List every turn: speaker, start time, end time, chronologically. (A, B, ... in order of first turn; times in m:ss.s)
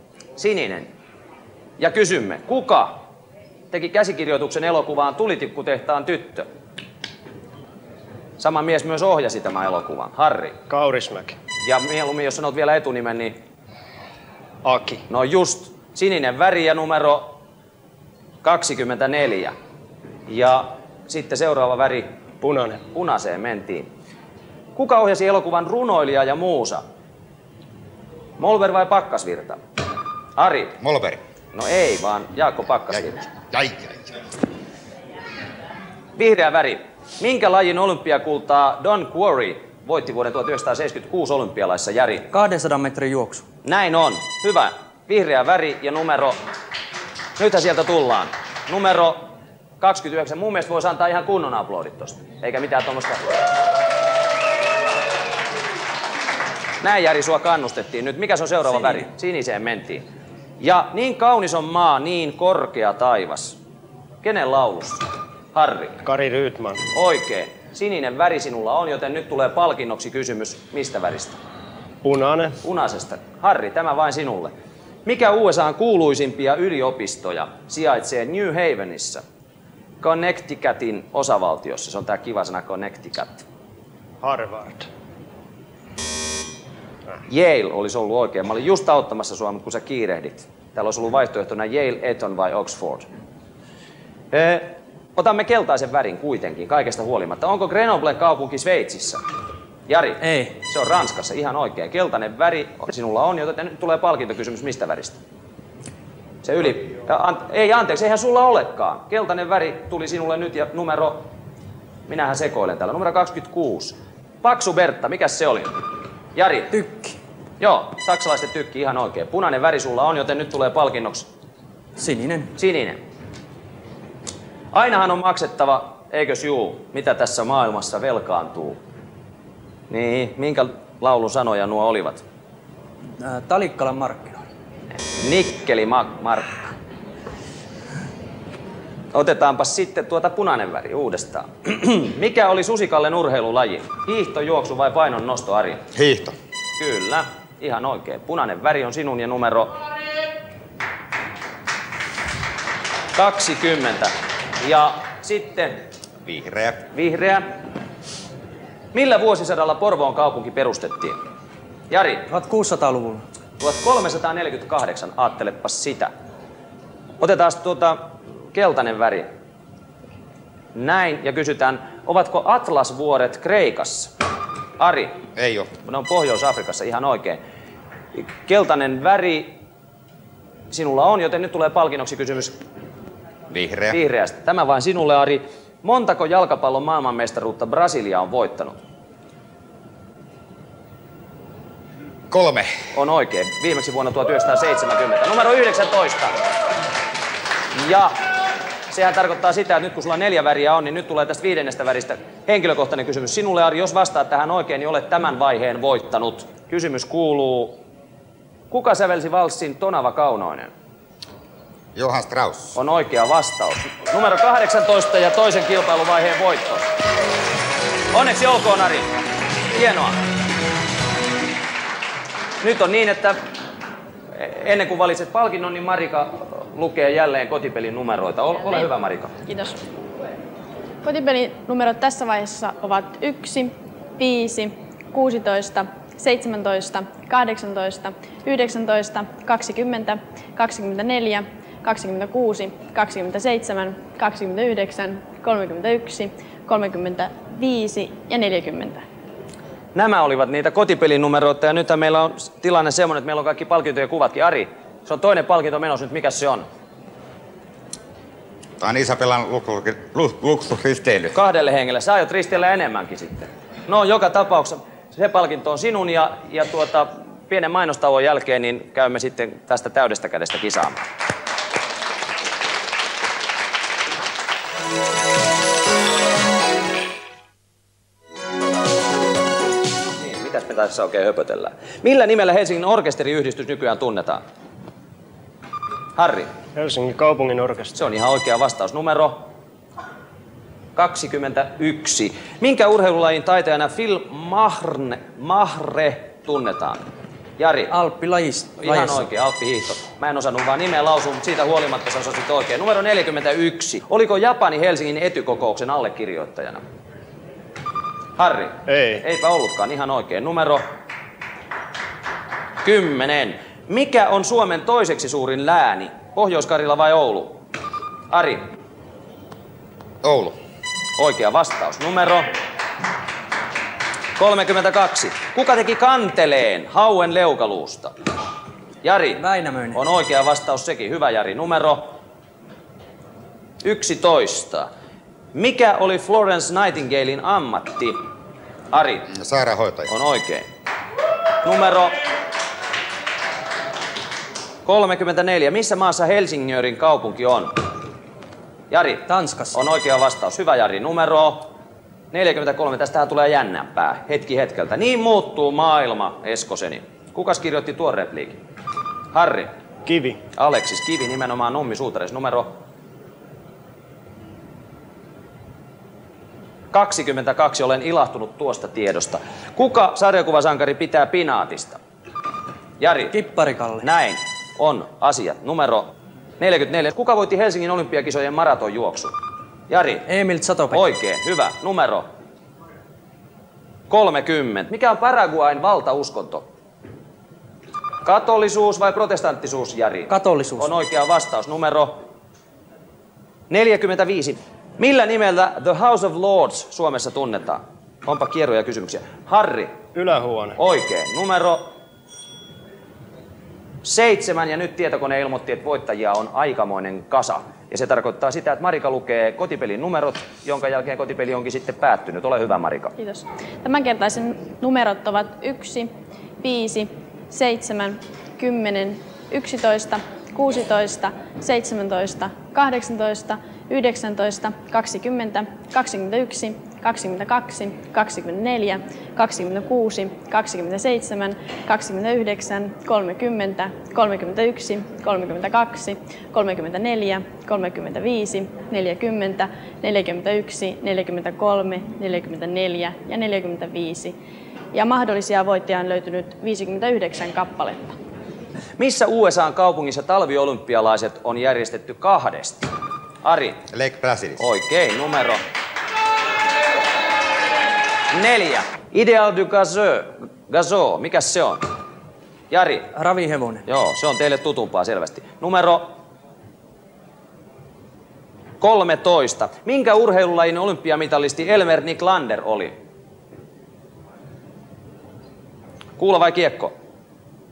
0:00.4-0:00.9 A
0:01.8-0:03.0 A
0:03.7-0:06.4 A
0:08.4-0:10.6 A
0:10.7-0:11.4 B
0:11.6-0:13.4 A
0:14.6-0:15.0 B
0:15.1-0:17.4 A
0:18.4-0:19.5 A
0:20.3-0:22.1 A
0:22.4-0:22.8 B
0:22.9-0:23.9 A
0:24.8-0:26.8 A
0:28.4-0:29.6 A
0:30.4-0:30.8 A
0:30.8-0:31.2 C
0:31.5-0:33.3 A
0:33.5-0:34.1 C
0:36.2-0:42.3 A
0:42.3-0:43.4 D
0:43.6-0:46.4 A
0:47.4-0:53.2 A
0:56.8-1:00.0 A
1:00.6-1:03.6 A
1:04.2-1:06.0 A
1:06.0-1:06.8 B
1:06.9-1:11.4 A
1:12.0-1:12.6 B
1:12.6-1:14.5 A
1:15.0-1:19.2 A
1:20.0-1:23.4 A
1:24.2-1:24.9 B
1:27.3-1:33.1 A
1:34.3-1:39.2 A
1:39.9-1:45.2 A
1:40.2-1:40.5 D
1:46.4-1:51.3 A
1:52.1-1:55.7 A
1:56.4-1:56.7 A
1:56.7-1:57.2 D
1:57.6-2:01.3 A
2:02.0-2:02.5 D
2:02.5-2:03.0 A
2:04.7-2:08.8 A
2:09.9-2:12.2 A
2:13.2-2:14.4 D
2:15.1-2:16.6 A
2:19.1-2:25.8 A
2:25.9-2:26.3 C
2:26.8-2:29.8 A
2:33.1-2:35.8 A
2:36.2-2:36.8 C
2:36.9-2:37.5 A
2:38.9-2:41.2 A
2:41.9-2:42.3 A
2:42.3-2:43.2 D
2:43.6-2:46.1 A
2:47.2-2:49.3 A
2:50.7-2:54.1 A
2:54.8-2:55.2 A
2:55.3-2:55.7 C
2:55.8-2:57.4 A
2:58.1-2:59.6 A
3:00.7-3:02.6 A
3:03.5-3:04.0 C
3:03.9-3:08.8 A
3:12.3-3:12.7 C
3:12.9-3:16.3 A
3:17.7-3:18.2 A
3:18.9-3:27.8 A
3:28.7-3:30.7 A
3:31.9-3:32.8 C
3:32.7-3:36.9 A
3:38.1-3:39.1 A
3:39.7-3:40.2 A
3:42.6-3:43.4 A
3:44.3-3:49.4 A
3:49.4-3:49.8 E
3:51.0-4:09.0 E
4:09.9-4:16.6 A
4:18.8-4:21.3 C
4:21.3-4:31.0 A
4:40.1-4:44.4 A
4:46.2-4:46.5 A
4:46.7-4:48.0 B
4:47.9-4:49.5 A
4:50.9-4:57.0 A
4:57.6-4:57.9 A
4:57.9-4:59.2 D
4:58.8-5:06.8 A
5:08.4-5:10.8 A
5:08.9-5:09.2 B
5:12.8-5:17.6 A
5:18.3-5:18.6 A
5:20.2-5:20.5 C
5:21.2-5:22.5 A
5:24.4-5:28.1 A
5:29.0-5:32.1 A
5:29.4-5:30.0 D
5:33.8-5:34.9 A
5:35.5-5:38.2 A
5:38.9-5:39.3 A
5:39.3-5:40.1 C
5:40.1-5:40.6 A
5:41.6-5:42.2 A
5:44.8-5:47.8 A
5:48.9-5:51.7 A
5:49.3-5:49.8 D
5:52.3-5:58.6 A
5:59.3-5:59.7 A
6:00.0-6:00.4 B
6:00.5-6:02.7 A
6:06.9-6:12.0 A
6:13.0-6:13.4 A
6:13.3-6:14.0 D
6:14.0-6:19.3 A
6:19.9-6:20.2 A
6:20.2-6:21.0 D
6:20.9-6:22.2 A
6:24.1-6:26.6 A
6:28.2-6:32.2 A
6:30.3-6:30.9 D
6:33.7-6:40.0 A
6:40.1-6:40.8 B
6:40.8-6:41.9 A
6:44.0-6:53.1 A
6:53.2-7:24.4 E
7:24.9-7:28.2 E
7:29.0-7:32.9 A
7:33.4-7:33.8 A
7:33.9-7:34.6 C
7:34.6-7:35.6 A
7:38.3-7:41.8 A
7:42.7-7:43.1 A
7:43.1-7:43.8 D
7:43.8-7:46.1 A
7:48.8-7:53.0 A
7:56.2-7:56.9 A